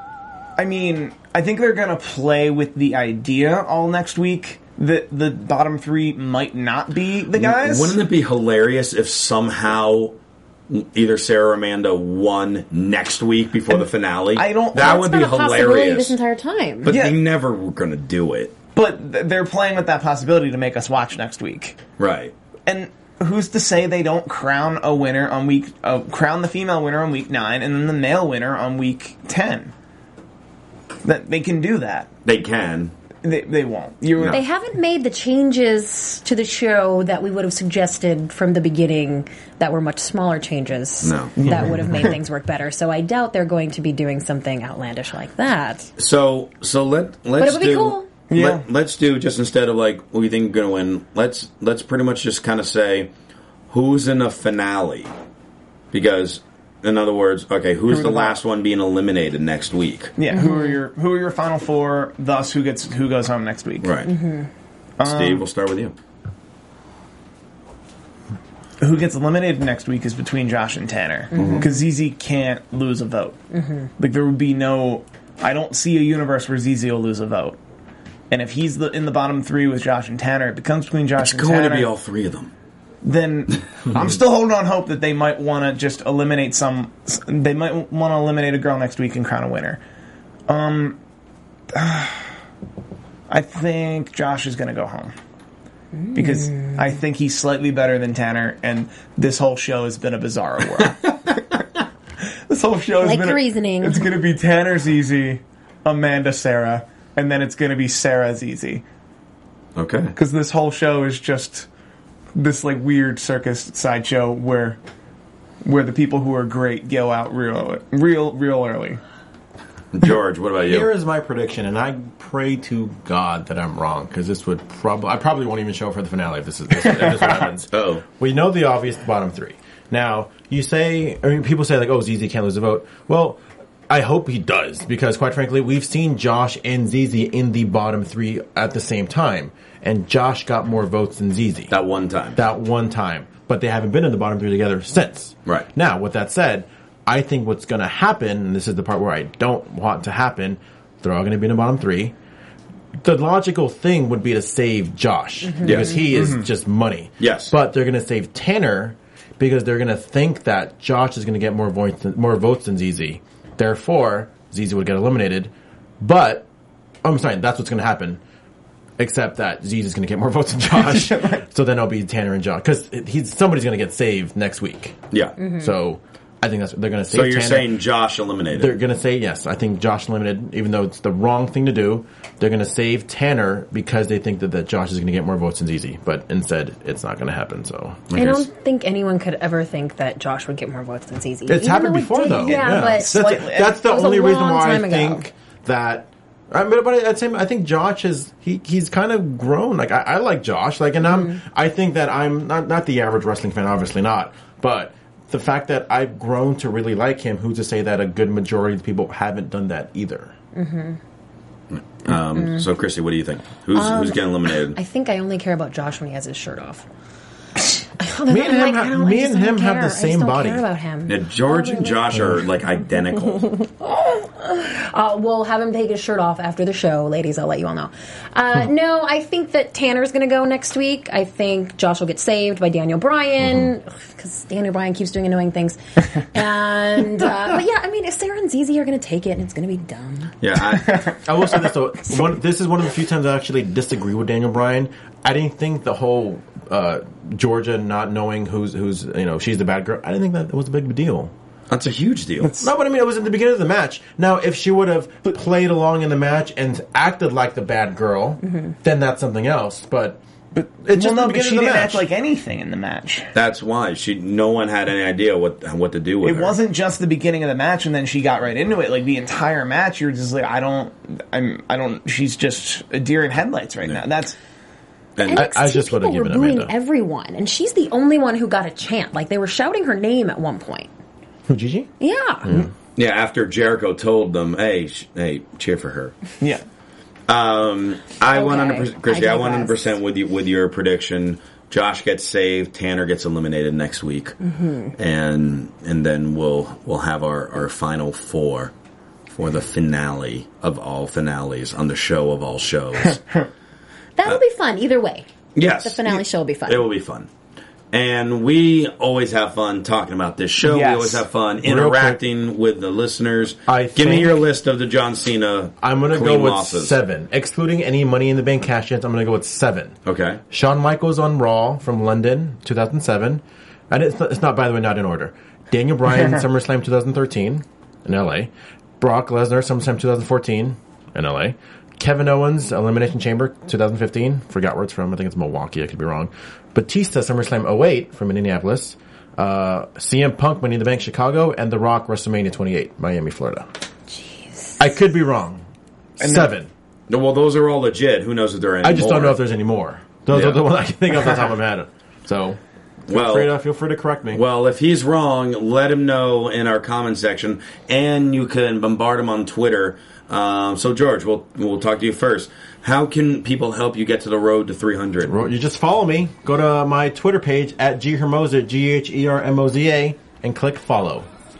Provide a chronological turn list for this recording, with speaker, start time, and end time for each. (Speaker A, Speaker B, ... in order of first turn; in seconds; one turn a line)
Speaker A: 0.6-8.0
Speaker B: 7.3-10.2
Speaker B: 10.7-16.2
Speaker A: 14.3-15.0
Speaker C: 14.7-16.9
Speaker B: 16.8-18.5
Speaker A: 16.9-17.2
Speaker A: 18.8-21.8
Speaker B: 22.0-22.3
Speaker A: 22.7-29.7
Speaker A: 31.0-32.1
Speaker B: 32.2-32.9
Speaker A: 33.2-34.4
Speaker B: 34.2-34.4
Speaker C: 34.3-45.9
Speaker B: 41.0-41.3
Speaker A: 41.4-42.2
Speaker B: 46.0-53.1
Speaker C: 47.4-48.1
Speaker A: 48.3-48.6
Speaker B: 53.7-55.1
Speaker B: 55.9-60.1
Speaker A: 57.9-58.4
Speaker A: 60.2-64.0
Speaker C: 60.3-60.8
Speaker B: 63.8-64.1
Speaker A: 65.0-65.4
Speaker B: 65.0-66.0
Speaker A: 68.8-73.4
Speaker C: 71.3-71.7
Speaker B: 71.4-71.7
Speaker A: 74.0-77.6
Speaker A: 78.3-81.9
Speaker B: 81.2-82.5
Speaker A: 83.0-89.8
Speaker A: 90.5-91.0
Speaker A: 91.7-92.2
Speaker A: 93.3-95.1
Speaker A: 96.2-101.6
Speaker A: 102.5-108.8
Speaker C: 103.0-104.1
Speaker B: 109.8-110.1
Speaker A: 110.2-111.7
Speaker A: 112.3-114.8
Speaker A: 115.6-119.0
Speaker B: 119.9-120.9
Speaker D: 120.6-141.8
Speaker B: 127.7-128.0
Speaker B: 141.7-142.4
Speaker D: 142.3-152.2
Speaker D: 153.0-166.5
Speaker B: 155.6-156.0
Speaker A: 156.1-156.4
Speaker B: 157.2-157.5
Speaker D: 167.0-168.2
Speaker D: 169.0-175.0
Speaker A: 170.7-171.4
Speaker B: 175.1-175.4
Speaker C: 175.4-175.7
Speaker D: 175.5-177.8
Speaker B: 177.1-178.8
Speaker D: 178.5-188.0
Speaker B: 188.1-188.4
Speaker C: 188.2-193.1
Speaker D: 191.5-210.3
Speaker A: 192.4-193.8
Speaker C: 193.8-195.3
Speaker C: 201.1-201.4
Speaker C: 210.6-211.0
Speaker B: 211.7-214.8
Speaker C: 213.8-216.9
Speaker C: 218.0-222.2
Speaker D: 218.3-220.6
Speaker B: 221.1-223.6
Speaker C: 223.5-240.3
Speaker B: 240.4-241.2
Speaker A: 240.8-241.2
Speaker D: 241.2-251.3
Speaker B: 251.7-252.7
Speaker D: 252.6-262.1
Speaker A: 260.5-263.3
Speaker B: 263.3-266.6
Speaker A: 266.2-274.4
Speaker B: 275.2-275.5
Speaker C: 275.2-280.9
Speaker D: 275.3-276.7
Speaker D: 281.5-281.9
Speaker C: 282.0-282.5
Speaker D: 282.4-282.7
Speaker B: 283.0-286.2
Speaker B: 287.3-294.4
Speaker C: 288.3-289.9
Speaker C: 294.4-294.9
Speaker B: 295.0-298.7
Speaker B: 299.3-303.2
Speaker A: 303.1-303.5
Speaker C: 304.2-306.9
Speaker B: 305.6-307.3
Speaker B: 307.9-317.0
Speaker A: 310.6-311.2
Speaker D: 311.6-312.2
Speaker D: 313.7-314.4
Speaker D: 315.8-319.9
Speaker B: 320.1-320.4
Speaker D: 320.5-343.7
Speaker C: 344.1-344.8
Speaker D: 344.8-345.6
Speaker D: 346.2-346.7
Speaker A: 346.2-346.5
Speaker B: 347.1-349.4
Speaker D: 348.8-354.4
Speaker B: 350.3-350.6
Speaker B: 353.1-353.5
Speaker B: 354.3-365.4
Speaker D: 365.2-371.3